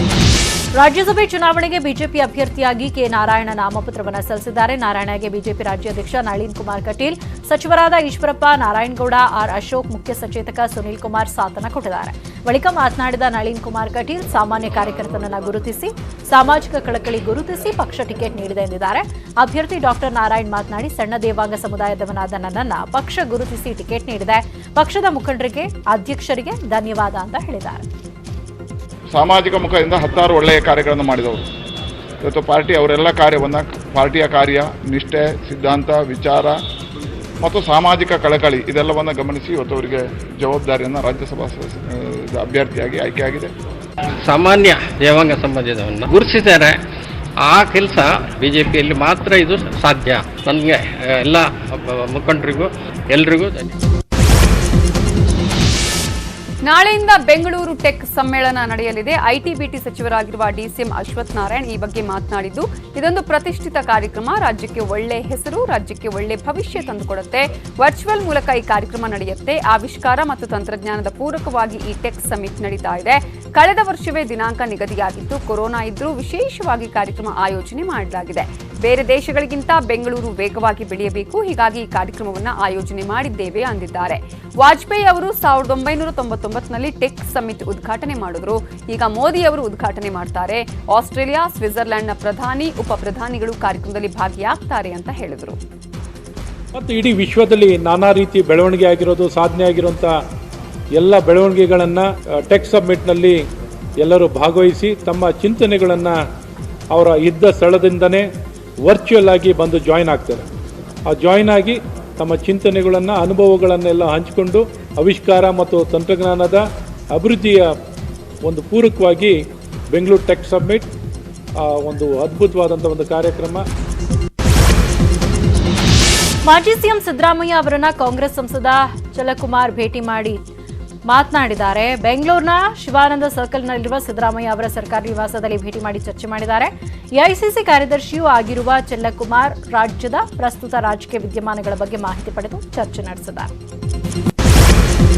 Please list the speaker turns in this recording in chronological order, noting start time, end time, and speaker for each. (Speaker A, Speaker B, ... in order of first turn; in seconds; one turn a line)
Speaker A: 0.8-27.8
Speaker B: 29.1-31.5
Speaker B: 32.2-36.6
Speaker B: 37.4-43.5
Speaker C: 44.2-46.8
Speaker C: 47.4-53.7
Speaker D: 56.7-95.6
Speaker E: 96.7-100.2
Speaker E: 101.0-103.4
Speaker E: 104.0-106.2
Speaker E: 106.9-108.3
Speaker E: 108.9-110.5
Speaker E: 111.1-117.7
Speaker E: 118.4-119.4
Speaker E: 119.9-120.9
Speaker E: 121.7-123.7
Speaker A: 126.5-130.4
Speaker A: 131.1-143.5